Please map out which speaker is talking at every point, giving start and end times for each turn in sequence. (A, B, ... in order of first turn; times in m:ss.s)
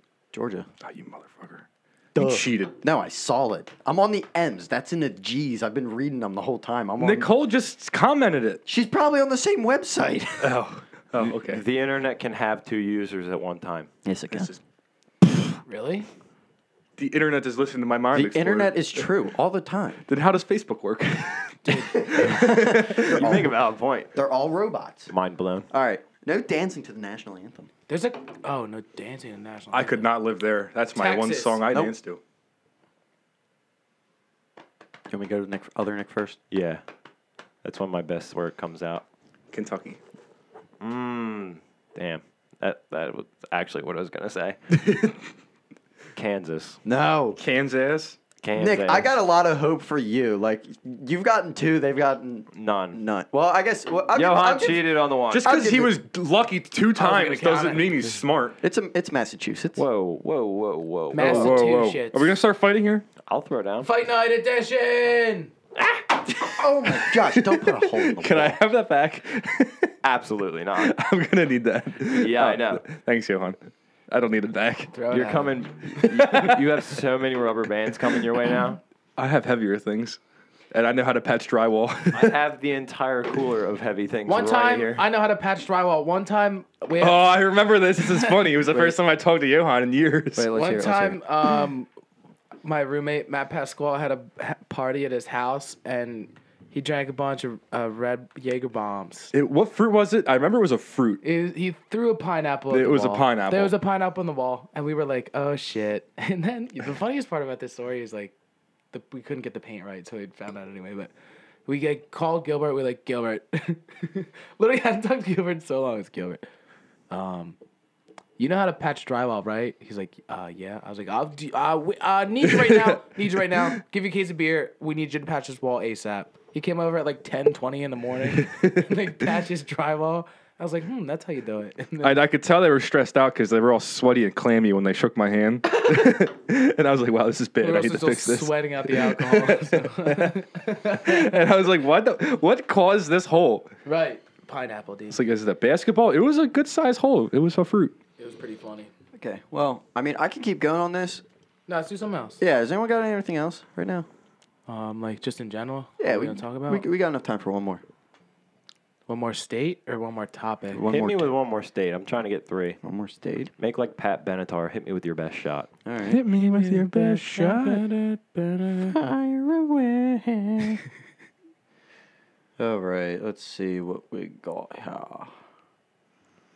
0:00.3-0:00.7 A
0:00.8-0:02.7 B
0:02.1-0:07.3 A
0:07.0-0:08.6 B
0:08.6-0:10.6 A
0:10.4-0:11.6 B
0:11.4-0:13.9 C
0:14.0-0:14.5 A
0:14.3-0:14.6 B
0:15.6-0:16.1 D
0:17.0-0:19.1 B
0:18.1-0:20.0 A
0:20.1-0:23.3 B
0:21.6-0:21.9 D
0:22.0-0:23.6 A
0:22.9-0:24.1 C
0:24.1-0:25.1 A
0:25.1-0:25.7 C
0:25.7-0:27.7 A
0:27.9-0:30.1 D
0:29.7-0:32.2 B
0:30.9-0:31.6 D
0:31.7-0:31.9 A
0:35.1-0:36.4 A
0:36.5-0:36.8 C
0:37.6-0:39.0 C
0:39.5-0:40.0 B
0:40.8-0:44.6 C
0:44.8-0:45.2 B
0:46.1-0:46.8 C
0:46.8-0:47.4 A
0:47.4-0:48.2 B
0:48.4-0:49.1 C
0:48.6-0:55.9 A
0:52.5-0:53.0 C
0:54.1-0:55.5 C
0:55.3-0:58.6 B
0:56.9-0:58.0 D
0:58.6-0:59.8 A
0:59.8-1:01.6 C
1:01.1-1:02.3 D
1:01.2-1:03.1 B
1:03.2-1:03.9 C
1:03.8-1:05.5 D
1:06.4-1:08.6 A
1:06.4-1:09.9 B
1:10.0-1:10.9 C
1:10.8-1:14.9 B
1:12.1-1:12.8 C
1:14.9-1:16.0 D
1:15.1-1:18.8 C
1:16.0-1:16.8 B
1:19.2-1:20.2 B
1:20.7-1:22.3 B
1:22.1-1:25.0 C
1:24.2-1:27.4 D
1:27.0-1:30.5 B
1:28.0-1:28.5 D
1:28.7-1:29.0 A
1:30.3-1:31.2 A
1:30.5-1:31.9 D
1:32.6-1:39.3 D
1:39.3-1:41.2 B
1:41.2-1:48.3 D
1:42.7-1:43.7 B
1:48.9-1:51.1 D
1:51.6-1:56.4 D
1:57.1-1:57.6 D
1:58.4-2:12.2 D
2:02.4-2:03.6 B
2:08.3-2:09.1 B
2:12.0-2:23.7 B
2:17.6-2:21.3 D
2:23.8-2:25.2 D
2:25.1-2:28.0 B
2:28.2-2:28.9 D
2:29.1-2:31.2 A
2:31.7-2:32.4 D
2:32.4-2:34.0 A
2:34.7-2:36.9 D
2:36.0-2:37.8 A
2:39.1-2:40.8 D
2:40.7-2:41.3 A
2:40.9-2:42.8 C
2:42.8-2:43.5 A
2:43.6-2:45.7 C
2:45.8-2:46.3 A
2:46.0-2:47.9 B
2:46.3-2:48.9 D
2:48.7-2:50.8 A
2:52.6-2:55.3 A